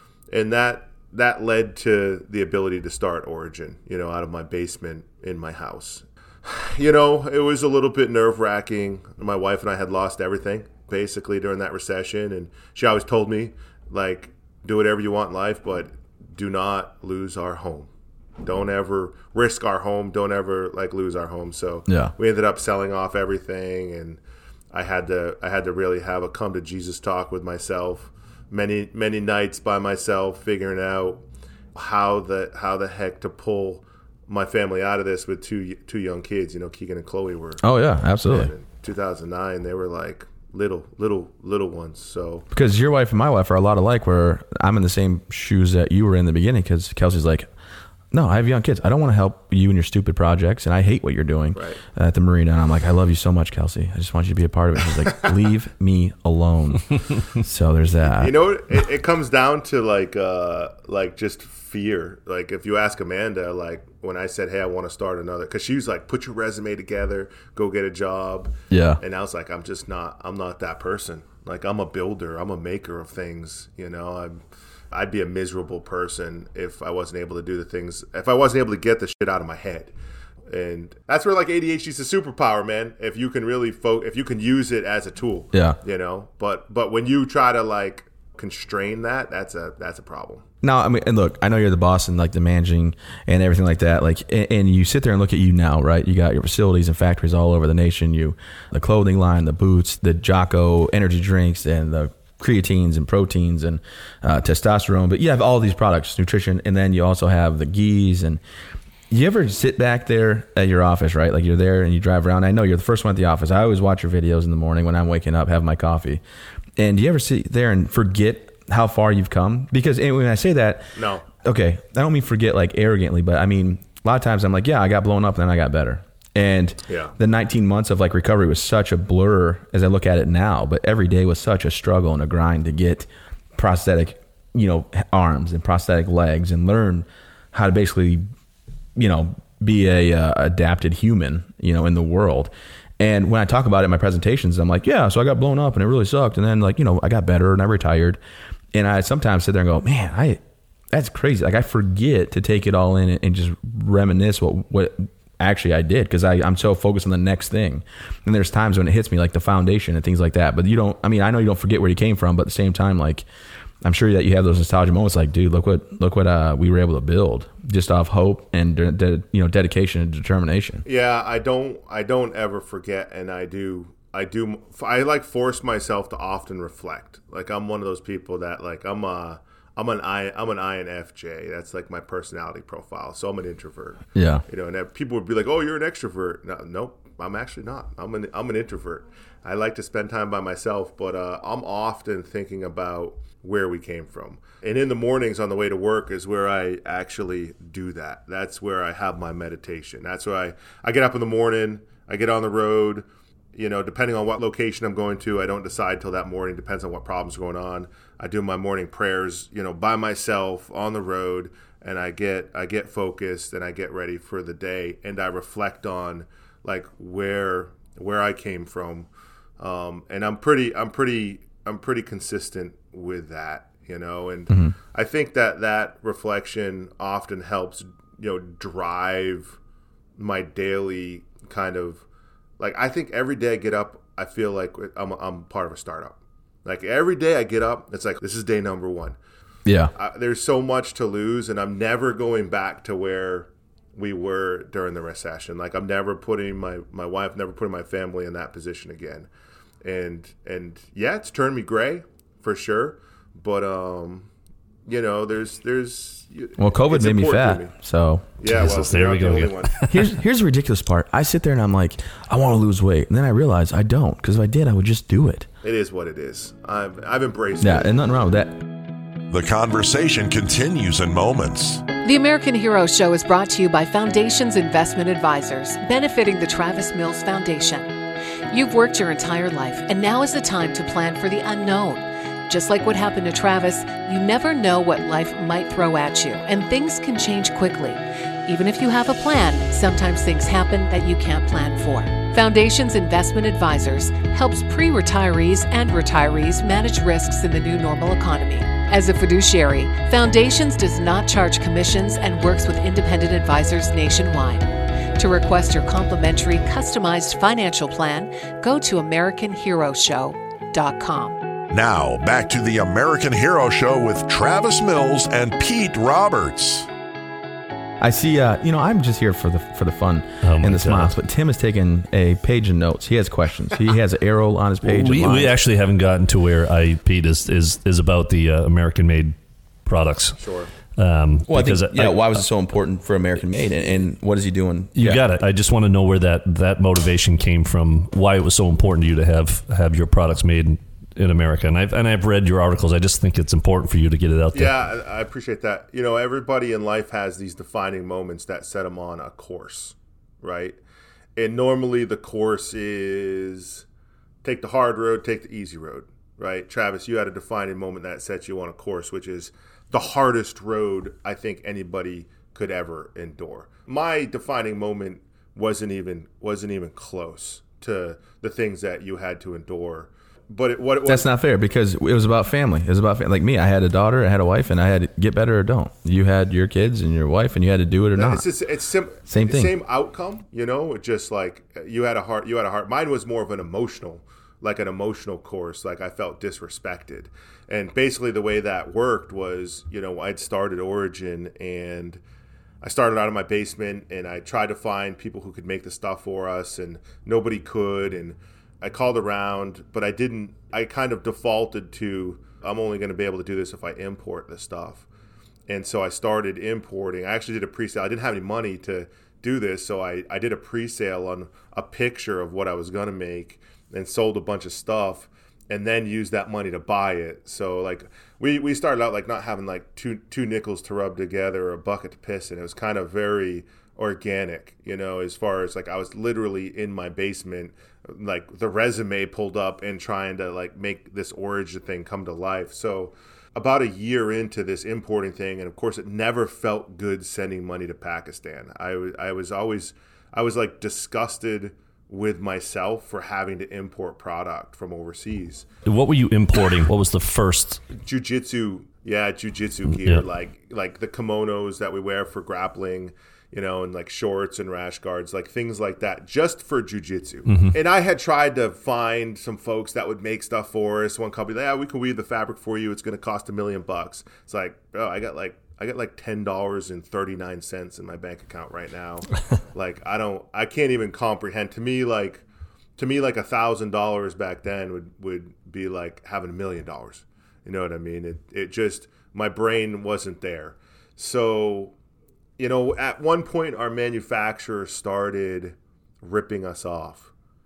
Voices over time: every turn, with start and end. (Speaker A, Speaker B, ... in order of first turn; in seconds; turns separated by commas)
Speaker A: 0.3-17.9, Speaker A: 18.4-24.2, Speaker A: 24.7-31.2, Speaker A: 31.8-37.6, Speaker B: 37.6-38.5, Speaker A: 38.2-42.5, Speaker B: 42.5-47.5, Speaker B: 48.1-58.3, Speaker A: 51.5-51.8, Speaker A: 58.1-79.9, Speaker B: 68.7-69.0, Speaker A: 80.5-90.4, Speaker B: 85.5-85.8, Speaker B: 90.6-108.4, Speaker B: 109.1-116.2, Speaker B: 116.8-138.2, Speaker A: 121.0-121.2, Speaker A: 126.9-127.1, Speaker B: 139.0-148.2, Speaker B: 148.7-150.4, Speaker B: 150.9-163.3, Speaker B: 163.8-170.8, Speaker A: 170.8-219.1, Speaker B: 184.2-184.4, Speaker A: 219.6-229.6, Speaker A: 230.2-232.0, Speaker A: 232.6-239.2, Speaker B: 239.7-239.9, Speaker A: 239.9-249.3, Speaker A: 249.8-254.3, Speaker A: 254.9-257.7, Speaker B: 256.6-258.3, Speaker A: 258.4-259.8, Speaker C: 258.5-260.0, Speaker B: 259.9-265.5, Speaker A: 265.6-267.9, Speaker B: 267.6-268.6, Speaker D: 269.3-271.8, Speaker E: 272.0-277.9, Speaker E: 278.5-304.7, Speaker E: 305.2-311.4, Speaker D: 311.7-316.9, Speaker B: 318.0-325.6, Speaker C: 320.4-321.1, Speaker C: 324.8-329.3, Speaker C: 329.9-330.4, Speaker A: 330.4-330.7, Speaker C: 331.0-332.3, Speaker B: 331.5-335.2, Speaker C: 335.0-344.7, Speaker A: 344.5-350.8, Speaker A: 351.4-353.9, Speaker A: 354.4-371.3, Speaker B: 371.1-378.4, Speaker A: 378.1-392.2, Speaker B: 379.3-379.8, Speaker A: 392.8-405.1, Speaker A: 405.7-445.6, Speaker C: 445.9-447.8, Speaker A: 447.9-472.4, Speaker C: 449.9-450.3, Speaker C: 457.5-457.8, Speaker A: 473.0-481.9, Speaker A: 482.6-487.3